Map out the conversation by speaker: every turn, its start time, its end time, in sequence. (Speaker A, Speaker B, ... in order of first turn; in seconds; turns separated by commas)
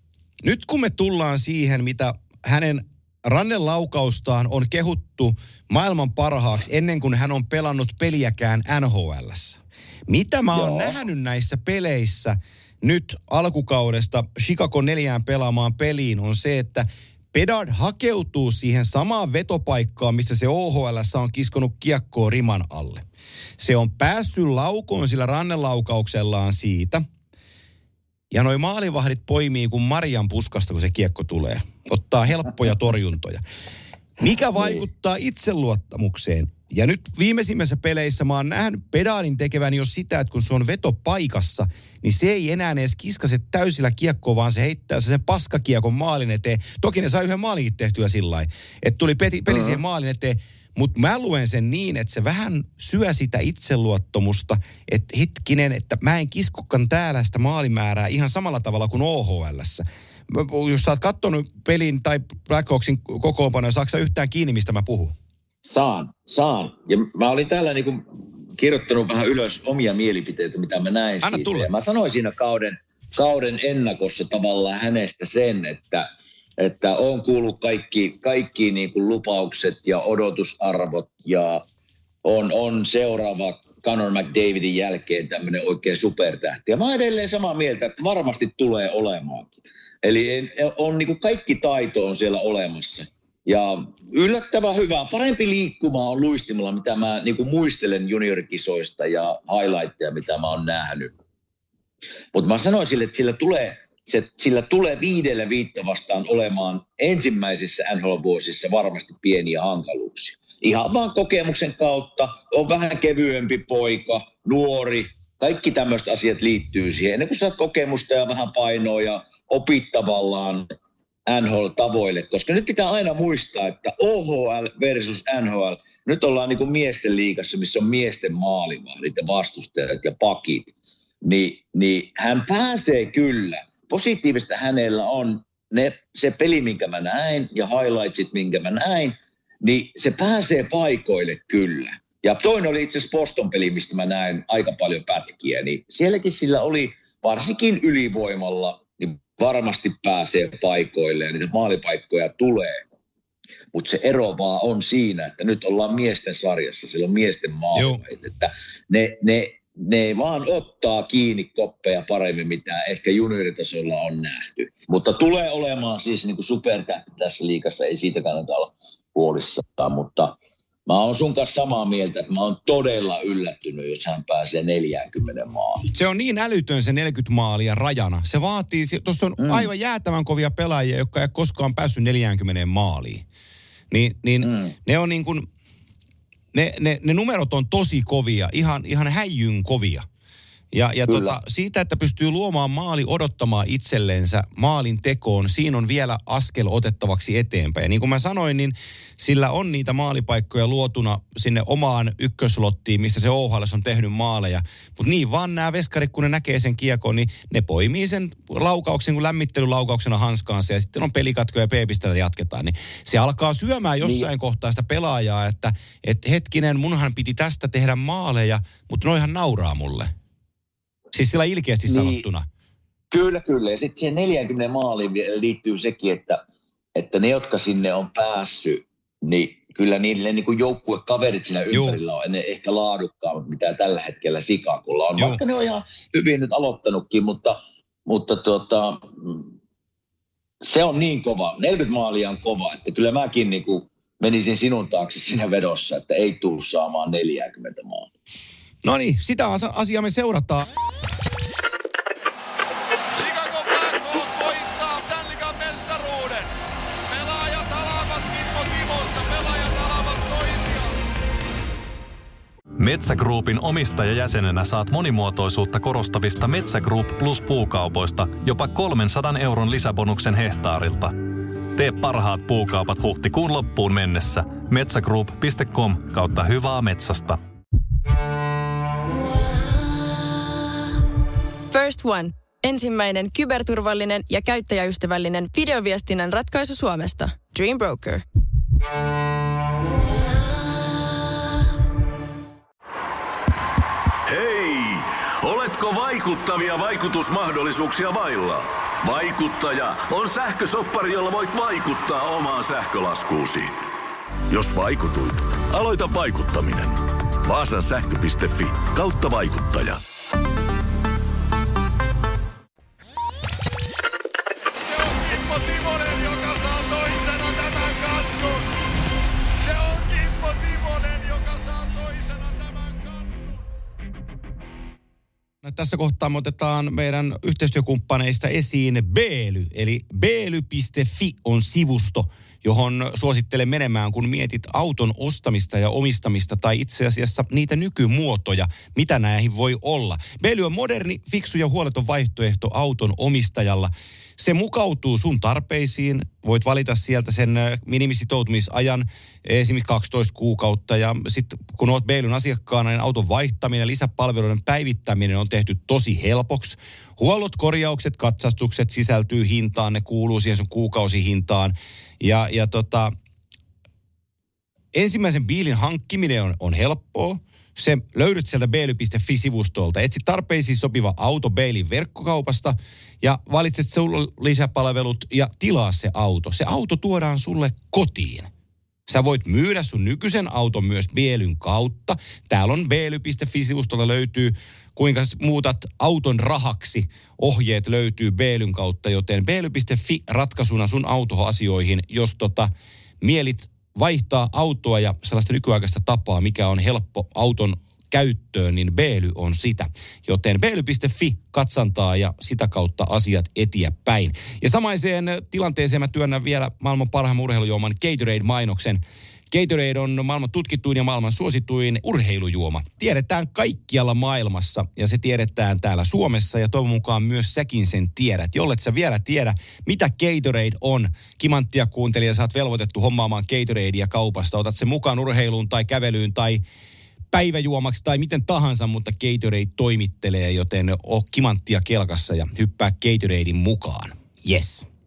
Speaker A: 0.4-23.0, Speaker B: 10.5-10.9, Speaker A: 23.6-27.0, Speaker A: 28.3-33.4, Speaker A: 34.2-65.1, Speaker B: 34.5-34.8, Speaker B: 49.5-49.8, Speaker B: 65.6-68.0, Speaker B: 68.6-76.1, Speaker A: 71.2-71.7, Speaker B: 76.6-81.6, Speaker B: 82.2-101.1, Speaker B: 102.3-120.7, Speaker B: 121.3-152.8, Speaker B: 153.7-175.9, Speaker A: 157.7-158.0, Speaker A: 175.9-183.2, Speaker B: 179.4-179.7, Speaker A: 183.9-185.5, Speaker B: 184.4-184.7, Speaker A: 186.5-190.1, Speaker A: 190.7-220.1, Speaker B: 191.1-191.4, Speaker B: 214.0-214.3, Speaker A: 221.1-222.5, Speaker B: 221.9-222.2, Speaker B: 223.1-226.4, Speaker B: 226.9-239.5, Speaker A: 231.7-232.0, Speaker B: 240.6-248.1, Speaker A: 248.8-250.7, Speaker C: 253.1-256.5, Speaker C: 257.1-261.0, Speaker D: 262.8-271.1, Speaker D: 271.7-277.4, Speaker E: 281.7-288.2, Speaker F: 294.3-303.8, Speaker F: 304.5-310.0, Speaker C: 314.8-318.7, Speaker C: 319.6-323.6, Speaker A: 325.6-363.1, Speaker A: 364.9-378.5, Speaker A: 379.1-426.6, Speaker A: 427.3-434.9